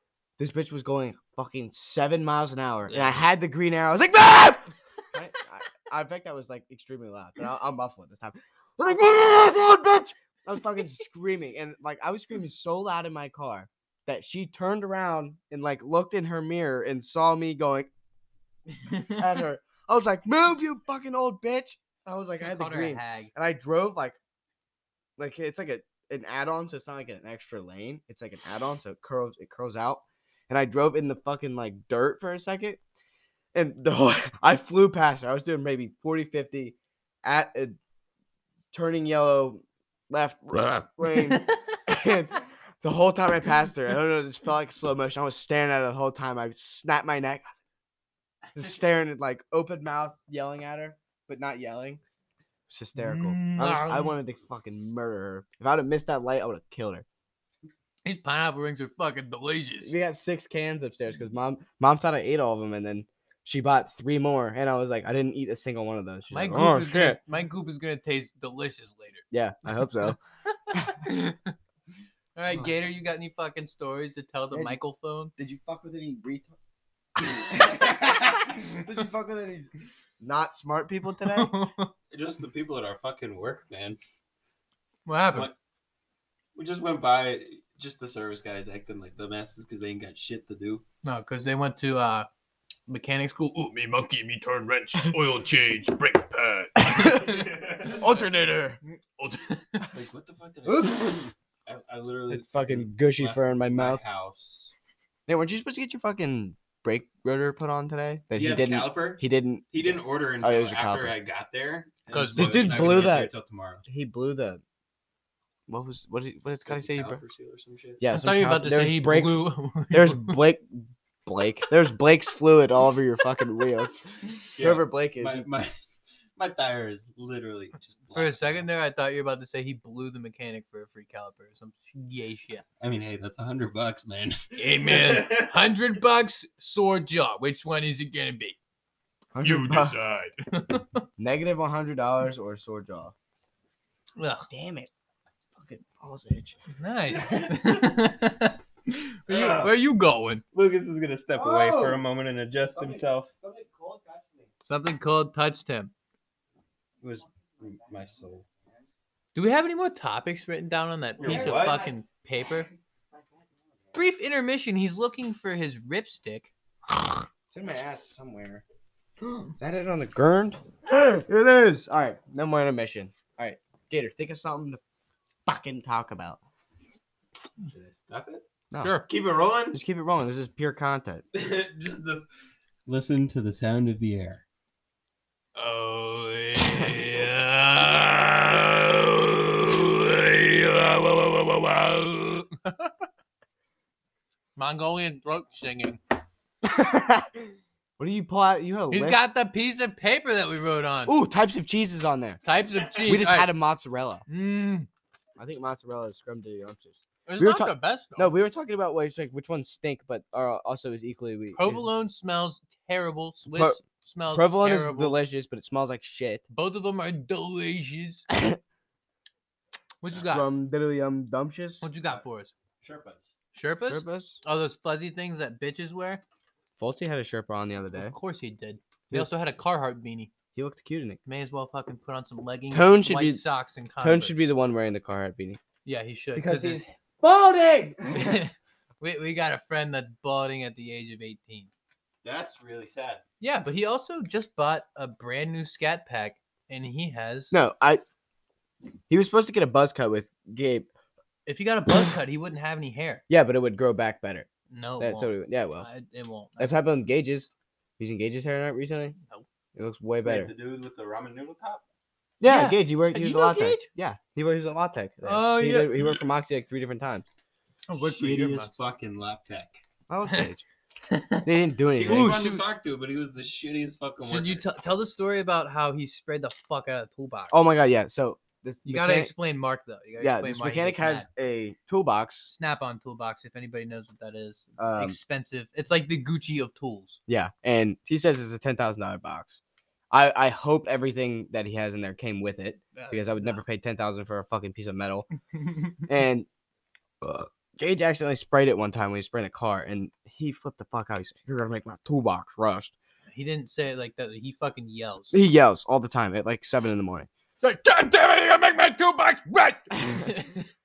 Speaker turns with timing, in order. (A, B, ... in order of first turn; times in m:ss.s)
0:00.4-0:17.9 A
0:02.9-0:03.1 B
0:18.8-0:19.2 B
0:19.1-0:24.2 A
0:22.4-0:23.3 B
0:25.2-0:32.8 A
0:33.5-0:37.8 A
0:38.7-0:47.6 A
0:41.2-0:41.6 B
0:48.6-0:52.0 A
0:52.7-0:57.0 A
0:53.0-0:54.2 B
0:58.0-0:59.9 B
0:59.8-1:07.2 A
1:06.3-1:09.2 B
1:09.3-1:10.2 A
1:10.7-1:11.5 B
1:12.4-1:15.3 B
1:14.5-1:14.8 A
1:15.4-1:16.6 A
1:17.2-1:21.5 A
1:21.2-1:21.9 B
1:22.1-1:24.0 C
1:25.1-1:25.5 B
1:25.2-1:25.6 C
1:26.6-1:30.8 C
1:31.0-1:32.3 B
1:32.9-1:37.5 B
1:36.8-1:38.8 A
1:37.0-1:38.1 C
1:39.2-1:39.9 B
1:39.9-1:44.7 C
1:40.7-1:41.3 A
1:42.3-1:44.0 A
1:45.3-1:51.2 A
1:48.3-1:53.8 C
1:52.1-1:53.0 B
1:52.4-1:53.3 A
1:53.9-1:54.6 A
1:55.7-1:57.2 A
1:56.6-1:58.0 C
1:58.0-2:05.5 A
1:58.1-2:00.4 B
2:04.6-2:05.7 C
2:06.4-2:08.6 C
2:08.2-2:12.6 B
2:12.8-2:15.7 C
2:14.6-2:18.6 B
2:19.3-2:20.0 A
2:19.4-2:21.0 B
2:21.2-2:23.1 A
2:24.2-2:24.5 B
2:24.5-2:24.9 A
2:25.6-2:26.6 A
2:26.8-2:30.4 B
2:29.3-2:29.8 C
2:30.5-2:33.3 C
2:31.4-2:32.0 A
2:32.7-2:34.5 A
2:34.6-2:35.9 B
2:37.0-2:38.5 C
2:37.4-2:38.3 A
2:39.4-2:42.7 B
2:41.2-2:41.9 C
2:41.2-2:41.9 A
2:43.1-2:43.5 A
2:43.9-2:46.5 B
2:47.5-2:48.6 A
2:49.5-2:54.8 A
2:55.5-2:56.4 A
2:57.7-2:58.4 C
2:58.7-2:59.0 A
2:58.8-2:59.1 B
2:59.1-2:59.8 C
2:59.7-3:01.2 A
3:01.3-3:02.3 C
3:02.9-3:04.4 C
3:05.6-3:12.9 B
3:14.6-3:16.0 B
3:16.6-3:19.2 A
3:18.9-3:21.2 B
3:21.1-3:22.4 A
3:22.4-3:23.5 B
3:23.0-3:24.2 A
3:24.3-3:24.9 B
3:25.4-3:31.9 A
3:27.3-3:28.3 B
3:31.6-3:35.2 B
3:33.5-3:36.4 A
3:36.5-3:38.2 B
3:38.3-3:38.6 A
3:40.0-3:40.5 B
3:40.1-3:41.9 A
3:41.8-3:42.5 B
3:42.8-3:43.3 C
3:43.5-3:46.2 B
3:43.8-3:44.4 A
3:46.8-3:48.2 A
3:47.9-3:50.3 B
3:50.6-3:51.2 A
3:51.3-3:54.5 B
3:52.7-3:53.4 A
3:54.0-3:55.6 A
3:55.8-3:56.9 B
3:56.4-3:58.4 A
3:58.1-4:01.7 B
4:02.2-4:03.2 C
4:03.4-4:07.6 B
4:07.5-4:08.0 A
4:09.1-4:10.9 A
4:11.5-4:13.2 B
4:13.3-4:14.5 A
4:14.7-4:16.8 B
4:15.0-4:15.9 A
4:16.6-4:19.2 A
4:19.8-4:20.5 A
4:20.2-4:21.8 C
4:22.4-4:27.2 A
4:22.5-4:23.9 B
4:25.2-4:26.1 B
4:27.9-4:28.8 B
4:28.0-4:29.8 C
4:30.1-4:30.6 A
4:31.1-4:31.5 B
4:31.4-4:32.4 A
4:32.0-4:34.6 C
4:32.0-4:32.6 B
4:34.2-4:37.6 B
4:37.5-4:39.3 A
4:38.8-4:41.3 B
4:40.2-4:42.5 A
4:42.5-4:47.2 B
4:44.8-4:45.2 A
4:47.3-4:55.3 A
4:53.0-4:53.6 B
4:55.5-4:56.0 B
4:56.1-4:56.5 A
4:57.2-5:02.9 A
5:03.3-5:05.4 B
5:05.3-5:07.3 A
5:07.6-5:10.7 B
5:10.0-5:10.4 A